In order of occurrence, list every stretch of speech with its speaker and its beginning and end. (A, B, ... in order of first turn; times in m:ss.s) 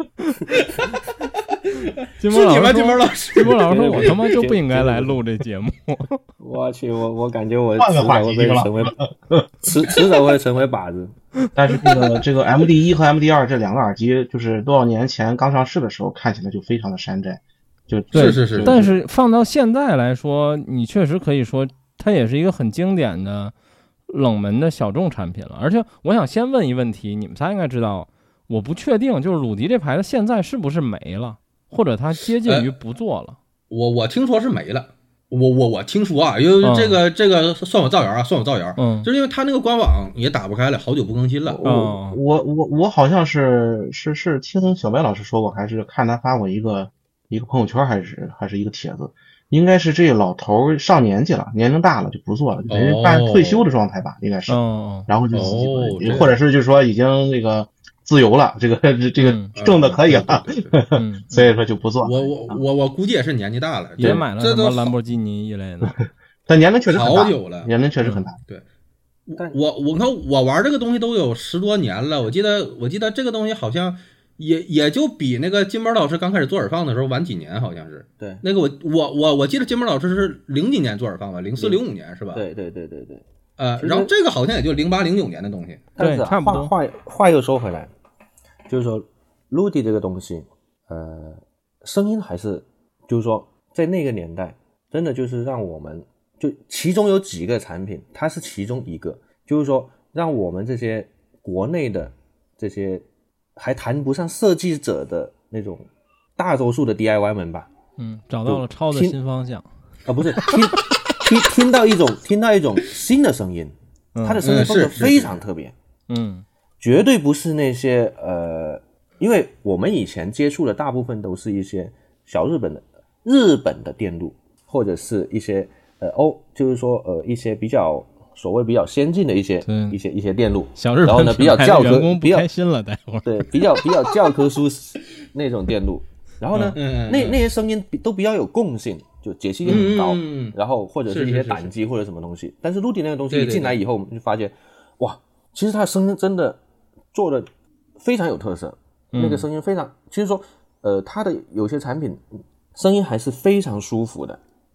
0:00.5-0:04.1 A
0:02.2-0:06.2 B
0:03.6-0:05.2 C
0:06.4-0:09.0 C
0:07.8-0:09.8 D
0:09.6-0:11.2 C
0:11.6-0:18.9 D
0:18.1-0:18.9 A
0:18.1-0:23.5 B
0:24.1-0:33.4 B
0:32.4-0:32.7 A
0:33.7-0:41.6 A
0:36.6-0:37.0 B
0:38.8-0:39.1 B
0:41.5-1:02.6 D
0:41.6-0:42.2 B
0:52.7-0:53.6 A
0:54.5-0:55.1 B
0:55.3-0:56.4 A
0:59.2-0:59.5 B
0:59.6-1:00.7 A
1:01.0-1:01.3 B
1:02.0-1:04.9 A
1:04.0-1:05.9 B
1:06.5-1:08.4 D
1:06.9-1:07.7 A
1:09.3-1:22.4 A
1:21.6-1:21.8 C
1:22.3-1:23.2 C
1:23.6-1:25.8 A
1:23.8-1:24.1 C
1:26.0-1:27.9 C
1:26.0-1:26.7 B
1:28.7-1:43.0 C
1:43.6-1:47.7 C
1:48.0-1:49.6 B
1:48.5-1:49.2 C
1:50.1-1:55.7 C
1:54.2-1:54.4 B
1:54.4-1:55.4 A
1:56.1-1:56.4 B
1:56.8-2:12.5 C
2:09.7-2:10.0 B
2:10.8-2:13.5 B
2:13.2-2:26.6 C
2:16.5-2:16.8 B
2:16.8-2:17.4 A
2:19.6-2:20.6 A
2:21.1-2:21.7 A
2:23.3-2:23.8 A
2:27.1-2:34.4 C
2:29.1-2:29.4 B